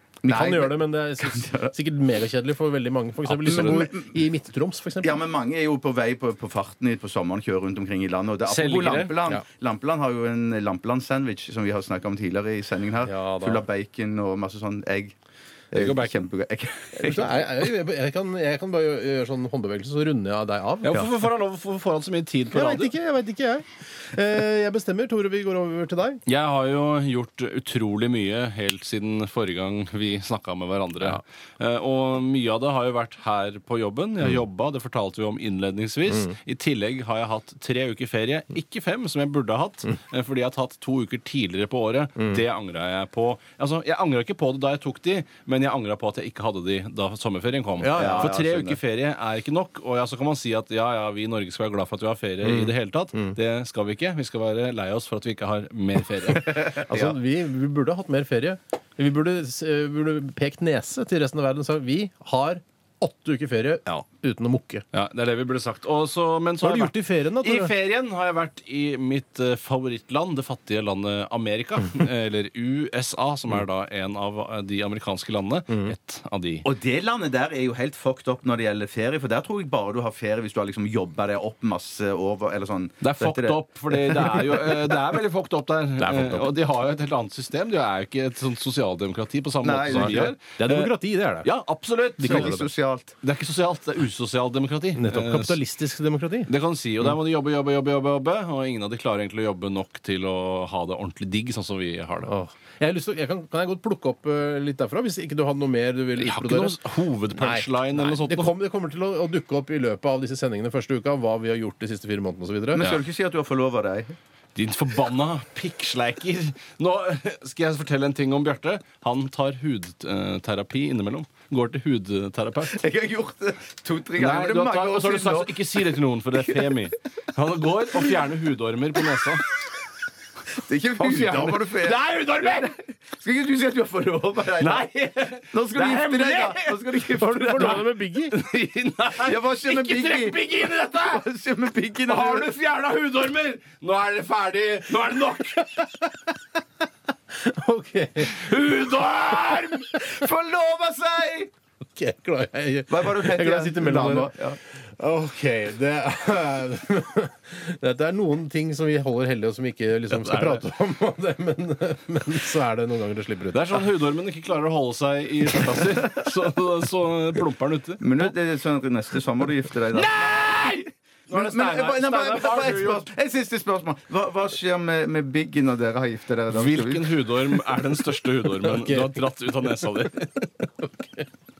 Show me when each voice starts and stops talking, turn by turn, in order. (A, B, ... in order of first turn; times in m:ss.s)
0:00.2-0:01.7 A
0:00.3-0:05.2 B
0:03.2-0:03.9 C
0:03.5-0:04.1 A
0:05.0-0:15.1 A
0:08.5-0:09.1 C
0:13.0-0:13.6 B
0:15.7-0:17.5 A
0:15.8-0:16.2 C
0:17.0-0:21.1 B
0:20.8-0:22.9 C
0:22.5-0:26.2 B
0:26.2-0:56.8 C
0:47.8-0:48.4 B
0:47.9-0:48.8 A
0:52.4-0:53.3 B
0:56.8-0:57.1 A
0:56.9-1:04.8 B
1:04.9-1:16.6 C
1:06.6-1:07.7 B
1:16.6-1:24.9 A
1:23.0-1:30.9 C
1:26.0-1:26.5 B
1:29.6-1:30.3 A
1:29.9-1:31.5 B
1:31.4-1:32.6 C
1:32.2-1:32.7 B
1:32.2-1:33.2 A
1:33.2-1:35.6 C
1:34.9-1:36.5 B
1:36.5-1:42.3 C
1:42.2-1:46.8 B
1:46.2-1:48.5 C
1:47.3-1:52.8 B
1:52.7-1:54.1 A
1:54.6-2:02.8 C
2:02.6-2:06.7 A
2:04.2-2:09.5 C
2:10.5-2:14.9 A
2:11.0-2:12.7 C
2:14.6-2:21.2 C
2:15.5-2:17.8 A
2:17.2-2:18.4 B
2:19.2-2:22.5 A
2:22.0-2:25.8 C
2:25.6-2:26.0 B
2:27.3-2:28.5 B
2:28.2-2:29.9 C
2:29.4-2:31.5 A
2:32.0-2:43.9 B
2:32.9-2:34.6 A
2:40.1-2:40.6 C
2:43.5-2:48.3 C
2:48.0-2:50.8 A
2:49.9-2:53.1 C
2:51.3-2:57.3 A
2:56.5-3:00.5 C
2:58.6-2:59.2 B
3:00.6-3:01.2 B